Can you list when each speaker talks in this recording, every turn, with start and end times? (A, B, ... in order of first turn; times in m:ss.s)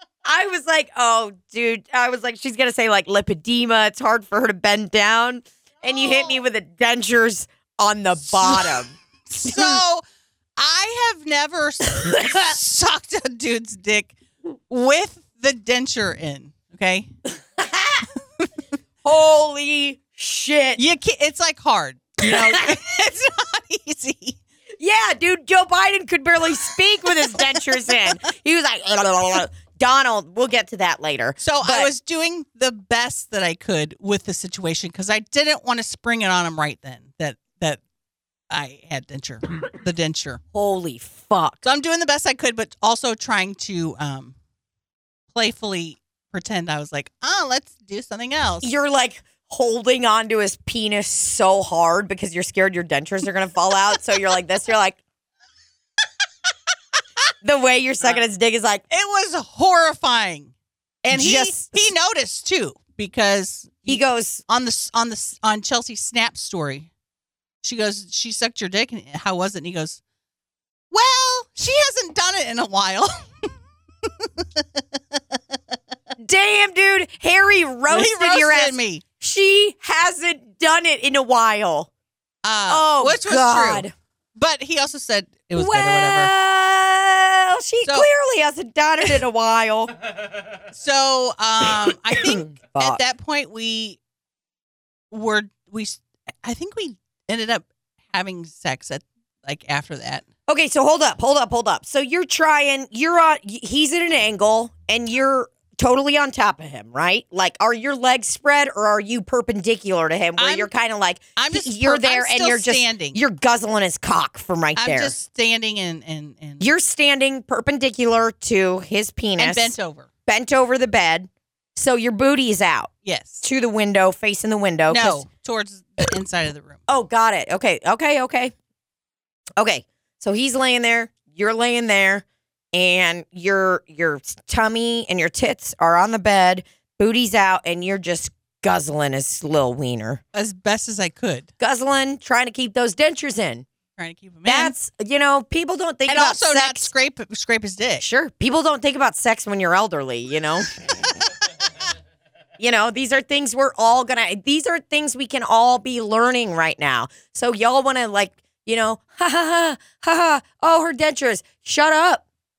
0:00.2-0:08.9 A
0:06.0-0:06.3 B
0:08.3-0:10.0 B
0:09.4-0:09.8 A
0:10.6-0:14.2 B
0:12.0-0:12.2 A
0:14.7-0:17.1 B
0:17.6-0:18.1 A
0:19.0-0:20.8 A
0:20.8-0:24.4 B
0:22.2-0:22.8 A
0:24.8-0:31.9 A
0:31.4-0:37.8 B
0:38.5-0:40.4 B
0:40.5-0:41.6 A
0:41.6-0:44.4 B
0:45.3-0:48.7 B
0:48.6-0:55.0 A
0:57.4-0:58.8 A
0:58.9-1:00.5 B
1:01.0-1:06.9 B
1:01.1-1:01.9 A
1:03.9-1:04.4 A
1:07.6-1:10.0 B
1:10.9-1:13.3 B
1:14.1-1:15.2 B
1:16.2-1:21.9 A
1:17.9-1:19.0 B
1:22.4-1:26.3 B
1:22.7-1:23.9 A
1:25.5-1:29.9 A
1:30.7-1:34.0 B
1:32.2-1:33.0 A
1:35.1-1:40.3 B
1:40.5-1:55.2 A
1:50.4-1:50.7 B
1:51.4-1:53.2 B
1:54.8-1:56.7 B
1:56.6-1:59.7 A
1:59.4-2:00.1 B
2:00.3-2:02.9 A
2:03.0-2:03.4 B
2:03.4-2:05.2 A
2:04.9-2:06.8 B
2:06.9-2:08.5 A
2:09.6-2:20.2 A
2:20.3-2:21.5 B
2:21.6-2:23.6 A
2:24.0-2:24.8 B
2:24.5-2:26.9 A
2:26.1-2:28.0 B
2:28.0-2:30.9 A
2:32.6-2:42.2 A